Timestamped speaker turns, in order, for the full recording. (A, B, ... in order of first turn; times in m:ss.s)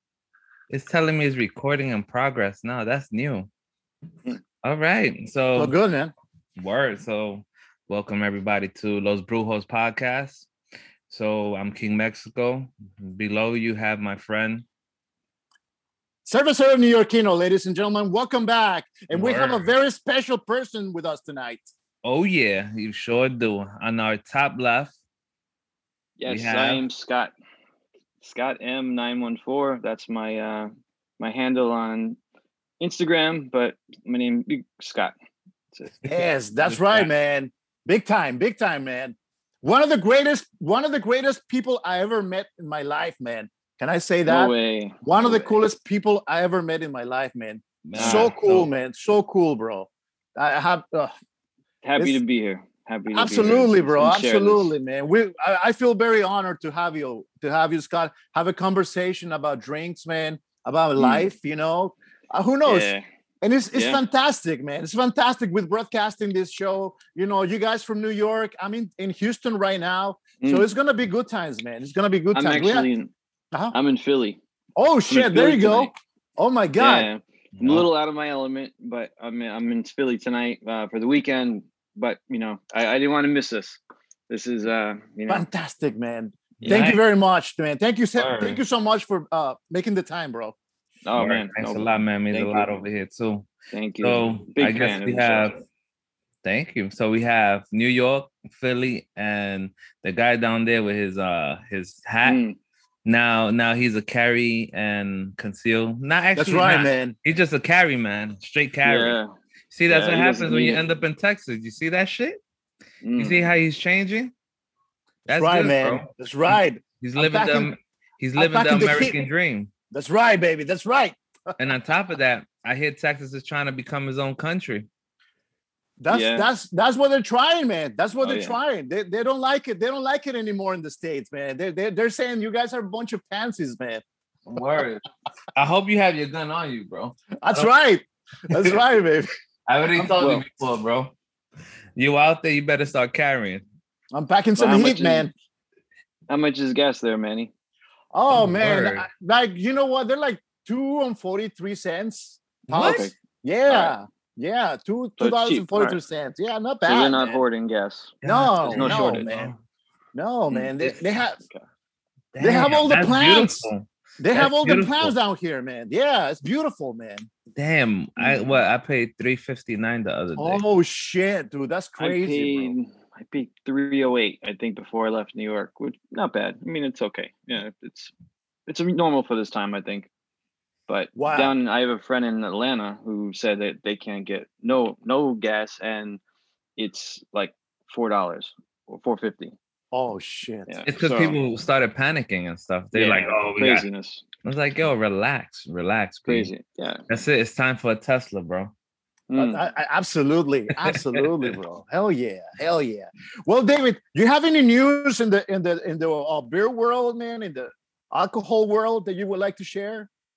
0:00.7-0:03.5 A
0:04.6-0:05.7 A
0:05.5-0:06.1 B
0:06.6-0:10.5 A
0:11.1-0:14.6 A
0:16.2-0:21.7 B
0:19.1-0:19.7 A
0:22.0-0:24.9 A
0:26.2-0:27.3 C
0:26.3-0:26.8 A
0:28.2-0:32.2 C
0:32.8-0:35.1 C
0:35.7-0:37.0 C
0:36.0-0:51.1 B
0:44.2-0:45.5 C
0:47.8-0:48.7 A
0:48.0-0:48.3 C
0:51.8-0:54.7 C
0:53.1-1:12.9 B
1:01.0-1:01.3 C
1:02.6-1:03.0 C
1:03.7-1:04.0 C
1:10.4-1:10.7 C
1:12.3-1:13.1 C
1:13.7-1:14.4 C
1:14.8-1:17.1 B
1:15.1-1:15.9 C
1:16.8-1:25.4 C
1:17.6-1:17.9 A
1:25.3-1:30.6 B
1:26.6-1:27.0 A
1:28.2-1:28.6 A
1:31.0-1:32.7 C
1:31.2-1:35.6 A
1:33.7-1:35.5 C
1:36.4-1:42.4 A
1:42.2-1:42.6 C
1:43.0-1:49.2 A
1:46.4-1:47.2 B
1:48.8-1:49.3 C
1:49.7-1:52.4 A
1:49.9-1:50.8 C
1:53.0-1:53.5 C
1:53.2-1:54.3 A
1:55.2-1:56.1 A
1:55.4-1:57.7 B
1:57.0-1:59.7 A
1:58.4-1:59.2 B
1:59.9-2:01.2 B
2:01.6-2:04.9 A
2:06.0-2:14.0 B
2:06.1-2:06.5 C
2:08.2-2:08.6 C
2:14.5-2:15.0 A
2:15.5-2:17.7 A
2:17.4-2:19.3 B
2:18.5-2:18.8 A
2:19.7-2:21.1 A
2:20.1-2:20.4 C
2:22.0-2:23.6 A
2:24.1-2:25.3 B
2:24.6-2:25.3 C
2:26.3-2:27.5 C
2:28.1-2:37.4 B
2:28.3-2:29.0 A
2:32.7-2:33.1 A
2:32.8-2:33.1 C
2:33.7-2:33.9 C
2:35.2-2:36.0 C
2:36.8-2:39.3 C
2:38.2-2:39.6 A
2:38.2-2:39.5 B
2:40.1-2:41.4 B
2:40.5-2:41.6 C
2:42.3-2:45.1 A
2:42.4-2:43.7 B
2:44.2-2:47.3 B
2:47.5-2:50.6 A
2:48.2-2:48.6 C
2:50.4-2:52.7 B
2:52.0-2:58.1 C
2:58.7-3:00.1 C
3:00.9-3:06.2 C
3:01.2-3:01.5 B
3:06.8-3:09.5 C
3:09.9-3:10.8 B
3:10.7-3:11.4 C
3:10.8-3:13.8 A
3:12.9-3:14.2 C
3:14.4-3:16.5 A
3:16.3-3:17.0 C
3:17.1-3:18.7 A
3:19.3-3:19.6 C
3:19.3-3:30.1 B
3:20.8-3:21.5 A